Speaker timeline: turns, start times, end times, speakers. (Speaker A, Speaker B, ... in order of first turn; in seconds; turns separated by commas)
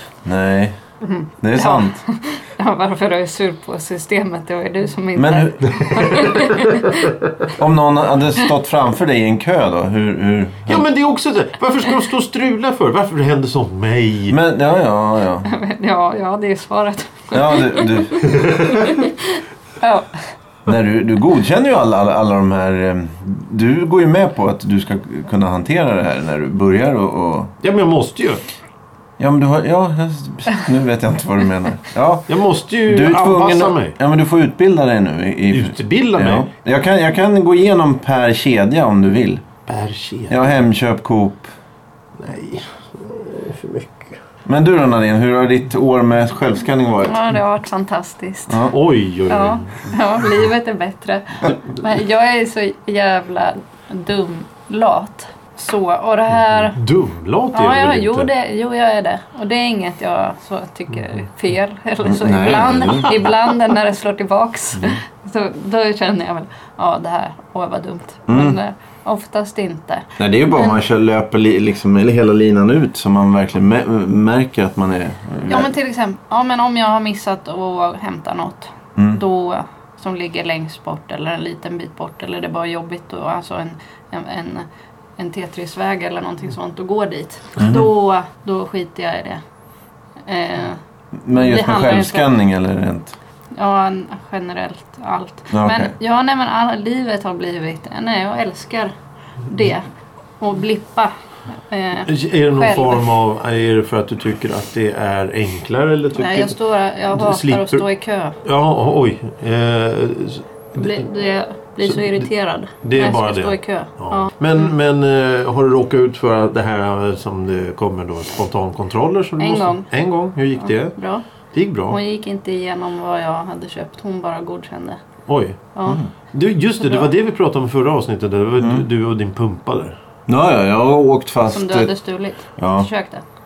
Speaker A: 0.2-0.8, Speaker B: 1.0-7.1, Speaker A: 1.4-2.0, Speaker A: 5.2-6.2, Speaker C: 6.2-6.5, Speaker A: 7.5-10.8, Speaker C: 10.7-14.4, Speaker A: 14.3-15.5, Speaker B: 15.4-20.2, Speaker A: 17.3-18.3, Speaker A: 20.6-27.5, Speaker C: 27.6-28.4, Speaker A: 29.2-39.5, Speaker C: 32.3-34.0, Speaker C: 35.5-36.5, Speaker C: 39.7-40.6, Speaker A: 40.3-41.5, Speaker C: 42.2-44.1, Speaker A: 44.5-47.2, Speaker B: 47.0-48.7, Speaker C: 48.7-50.0, Speaker B: 49.3-56.8, Speaker C: 56.7-58.3, Speaker B: 57.5-70.8, Speaker A: 62.0-63.2, Speaker A: 68.3-68.6, Speaker A: 70.2-75.7, Speaker B: 75.5-84.7, Speaker B: 85.2-89.4, Speaker A: 87.6-87.9, Speaker B: 90.2-90.8, Speaker A: 91.2-93.2, Speaker B: 91.3-92.3, Speaker B: 93.5-98.9, Speaker A: 95.5-95.9, Speaker B: 99.4-99.9, Speaker B: 100.4-103.1, Speaker C: 102.1-106.5, Speaker B: 106.2-108.3, Speaker C: 107.1-107.8, Speaker C: 108.4-111.0, Speaker B: 110.7-114.3, Speaker C: 111.8-112.3, Speaker C: 112.8-120.9, Speaker B: 119.4-119.9, Speaker B: 120.5-121.2, Speaker C: 121.5-122.0, Speaker B: 121.9-125.0, Speaker C: 125.3-125.7, Speaker B: 125.7-126.0, Speaker C: 126.3-129.9, Speaker B: 126.8-127.1, Speaker A: 128.6-128.8, Speaker A: 130.3-131.9, Speaker B: 131.5-133.2, Speaker A: 132.6-132.9